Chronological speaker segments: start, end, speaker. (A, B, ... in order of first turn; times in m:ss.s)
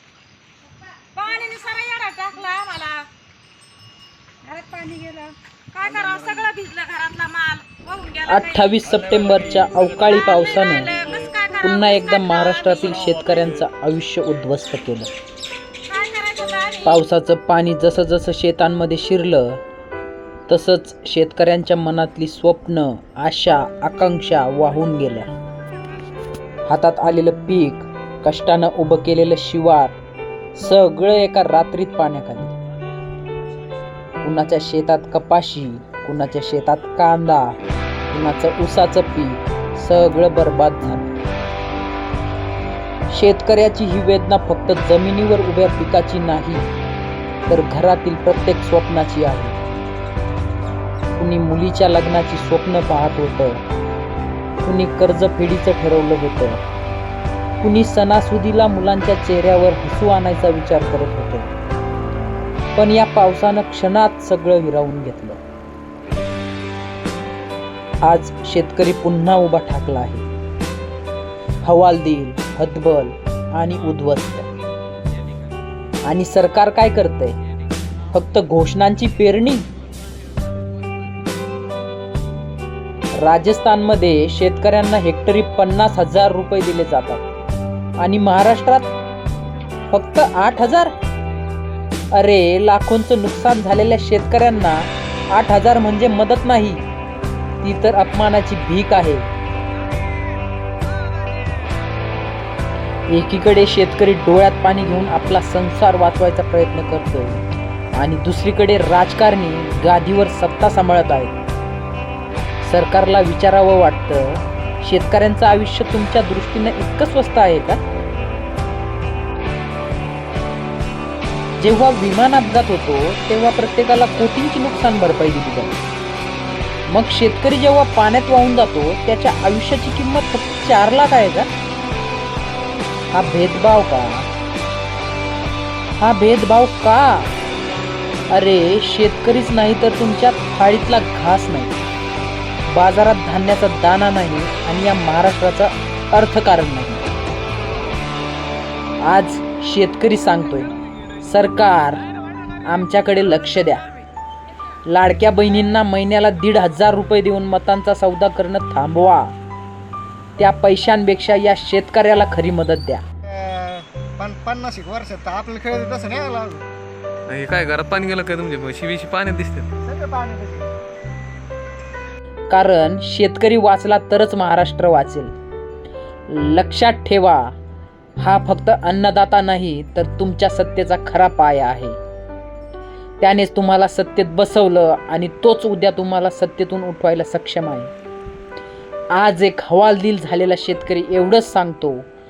0:01.1-0:03.1 A
0:04.4-0:08.8 A
0:08.3-0:10.9 B
0:10.0-0:13.0 A
0:11.6-0:15.1 B
0:15.9-0:17.0 A
0:16.8-0:19.6 B
0:20.5-0:25.3 B
0:26.7-0:29.9 B
0:30.5-0:32.5 B
0:34.2-0:37.6 B
0:38.1-0:41.1 B
0:43.1-0:46.7 B
0:47.5-0:49.6 B
0:51.2-0:53.6 B
0:54.6-0:56.6 B
0:57.6-1:01.5 B
1:02.8-1:05.4 B
1:08.0-1:10.2 B
1:11.6-1:14.5 B
1:16.0-1:17.4 B
1:18.1-1:19.6 B
1:23.2-1:27.2 B
1:28.0-1:28.9 B
1:29.9-1:30.9 B
1:32.1-1:36.8 B
1:37.6-1:39.3 B
1:43.1-1:51.4 B
1:52.6-1:57.8 B
2:01.6-2:05.8 B
2:06.9-2:11.5 B
2:13.1-2:14.3 B
2:16.0-2:17.3 B
2:18.3-2:21.7 B
2:22.7-2:27.1 B
2:29.0-2:32.0 B
2:32.6-2:33.8 B
2:34.8-2:39.3 B
2:40.4-2:43.0 B
2:43.2-2:46.6 C
2:47.3-2:49.7 D
2:49.8-2:50.7 C
2:52.5-2:55.3 B
2:56.3-2:57.5 B
2:58.2-3:02.0 B
3:03.2-3:07.9 B
3:09.1-3:12.1 B